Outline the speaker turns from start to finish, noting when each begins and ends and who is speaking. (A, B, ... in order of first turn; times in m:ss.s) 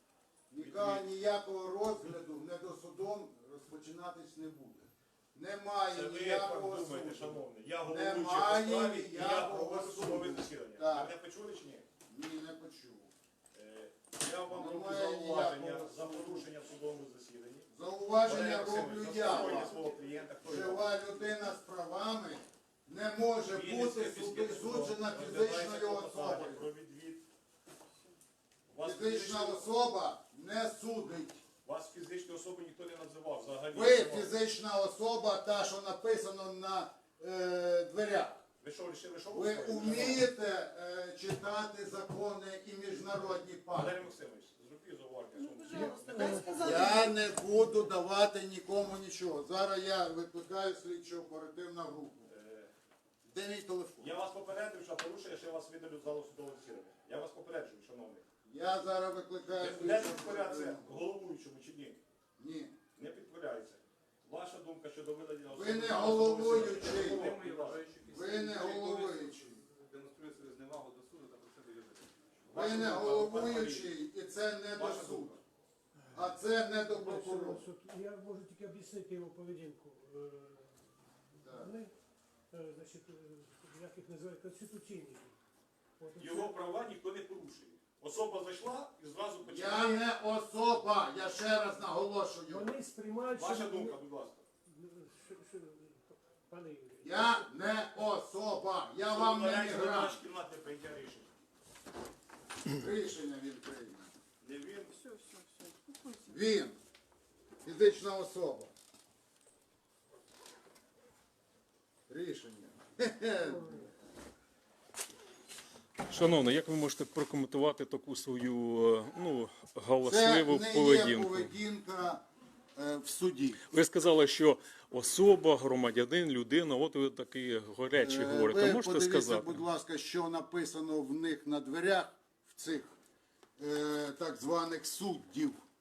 0:00.5-0:11.1 A
0:00.6-0:01.0 B
0:05.9-0:11.9 B
0:12.1-0:13.1 A
0:13.5-0:21.0 B
0:14.5-0:16.4 A
0:17.7-0:19.7 A
0:20.4-0:26.6 A
0:23.5-0:27.3 B
0:28.7-0:29.6 B
0:28.8-0:31.4 A
0:31.6-0:34.3 B
0:33.7-0:38.4 A
0:38.6-0:40.3 B
0:39.3-0:44.0 A
0:43.7-0:47.0 B
0:45.4-0:47.3 C
0:46.5-0:52.3 A
0:52.3-0:52.7 B
0:53.3-0:54.1 A
0:54.0-0:58.2 B
0:58.4-1:00.9 A
0:59.6-1:02.0 B
1:02.4-1:02.8 A
1:02.9-1:07.9 B
1:05.5-1:07.4 A
1:06.5-1:12.3 D
1:08.1-1:09.6 A
1:12.4-1:13.9 B
1:12.5-1:15.4 A
1:14.7-1:15.4 B
1:16.1-1:17.6 A
1:17.0-1:21.9 E
1:21.4-1:21.7 A
1:22.5-1:25.4 E
1:26.0-1:26.6 E
1:26.2-1:30.1 B
1:29.4-1:32.7 A
1:32.5-1:34.0 E
1:33.3-1:34.4 B
1:34.6-1:37.8 E
1:37.0-1:40.2 A
1:39.1-1:41.3 B
1:42.7-1:44.1 A
1:44.4-1:44.9 B
1:44.9-1:46.4 C
1:46.3-1:46.8 A
1:47.6-1:48.7 A
1:52.1-1:53.8 A
1:53.4-1:53.9 E
1:56.1-2:01.5 F
2:00.0-2:03.6 A
2:03.7-2:09.6 F
2:08.0-2:12.9 A
2:13.6-2:15.6 A